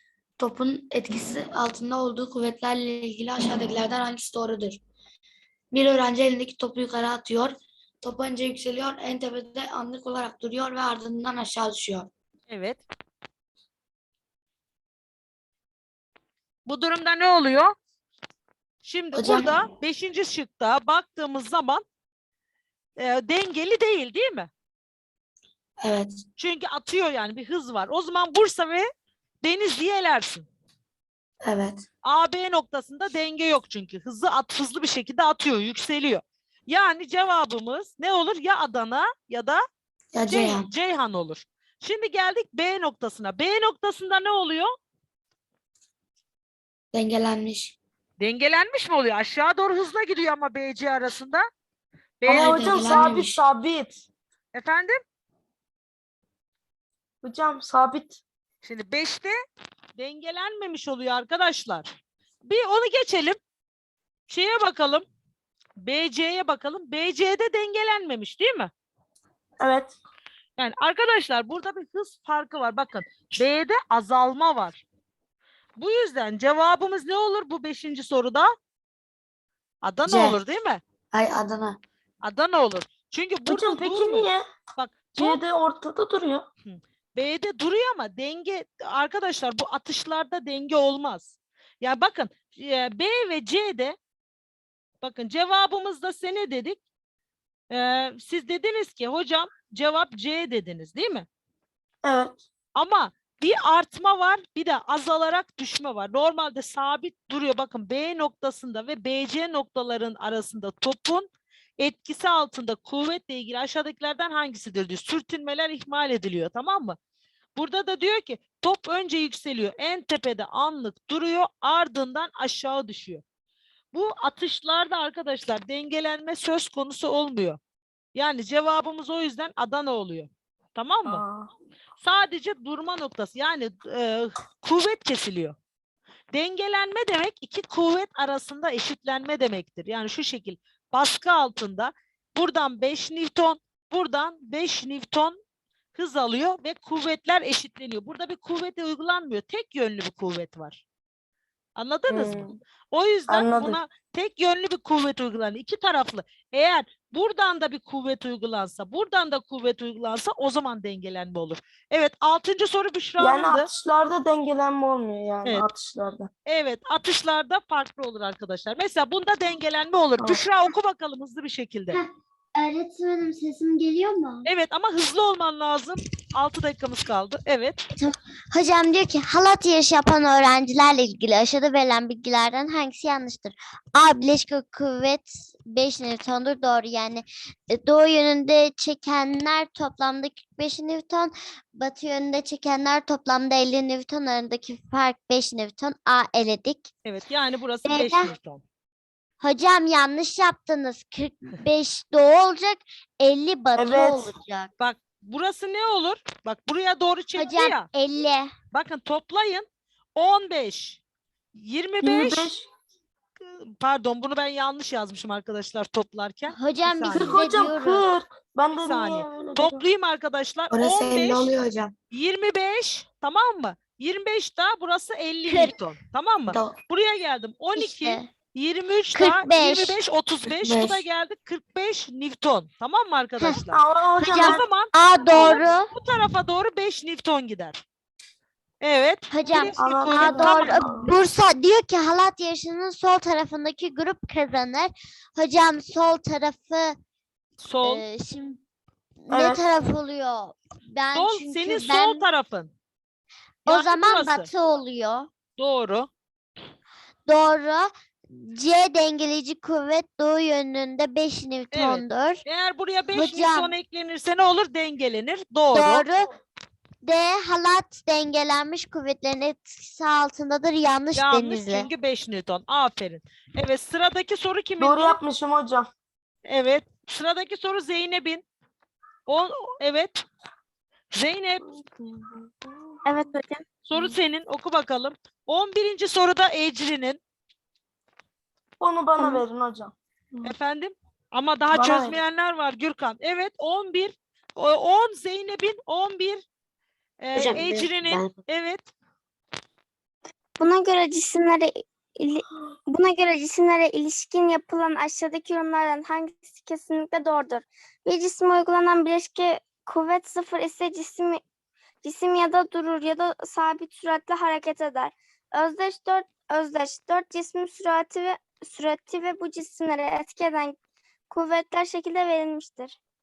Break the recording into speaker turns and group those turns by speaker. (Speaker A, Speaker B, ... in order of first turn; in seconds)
Speaker A: 0.4-4.8, 5.7-12.1, 19.1-19.6, 25.8-26.2, 31.4-31.8, 40.1-40.7, 46.9-47.8, 52.3-53.4, 80.1-80.4, 81.1-81.8, 220.7-221.9, 226.5-226.8, 230.5-231.0, 297.3-298.4
Speaker B: 12.5-12.8, 16.6-17.7, 18.8-21.8, 23.0-24.5, 26.4-28.9, 29.4-30.5, 32.0-39.6, 40.3-44.7, 48.2-51.5, 52.2-53.0, 54.5-55.0, 58.6-59.3, 60.0-61.9, 62.4-63.4, 64.3-65.0, 65.8-68.7, 70.6-74.8, 75.8-78.5, 79.8-80.8, 82.2-85.4, 86.6-94.0, 95.0-96.8, 97.7-101.2, 102.8-117.0, 117.5-123.2, 123.9-127.6, 128.1-131.2, 132.0-135.6, 136.3-145.4, 145.9-150.8, 151.8-163.7, 166.4-172.0, 174.4-177.8, 197.0-198.6, 204.8-207.8, 208.7-211.0, 211.5-212.5, 213.5-217.4, 218.8-221.5, 222.1-233.8, 234.3-237.8, 238.8-240.8, 247.6-248.0, 251.1-252.7, 253.7-254.5, 255.6-256.1, 261.7-266.1, 271.1-275.2, 276.4-278.4, 279.3-280.2, 281.1-281.6, 283.9-287.2, 290.4-296.4, 297.2-298.9
Speaker C: 52.2-54.0, 57.2-58.2, 69.6-70.0, 83.5-84.4, 85.1-86.5, 102.0-102.4, 131.1-131.5, 152.1-152.6, 153.3-153.8, 163.2-166.3, 203.8-204.3, 212.0-212.7, 217.1-219.8, 233.6-234.7, 239.6-241.1, 249.3-249.6, 274.8-275.9, 281.6-283.0, 288.8-290.5, 291.7-292.2
Speaker D: 172.6-174.5, 177.9-196.9, 197.8-198.3, 199.4-204.7, 207.3-208.5, 216.5-218.1, 225.5-225.8, 227.8-228.3, 229.1-230.0, 234.2-235.9, 239.3-246.9, 247.8-248.6, 249.2-252.3, 253.6-255.3, 257.2-262.4, 263.1-263.8, 265.7-266.3, 267.0-271.9
Speaker E: 283.1-283.6, 300.6-311.4, 312.0-320.8, 321.3-322.9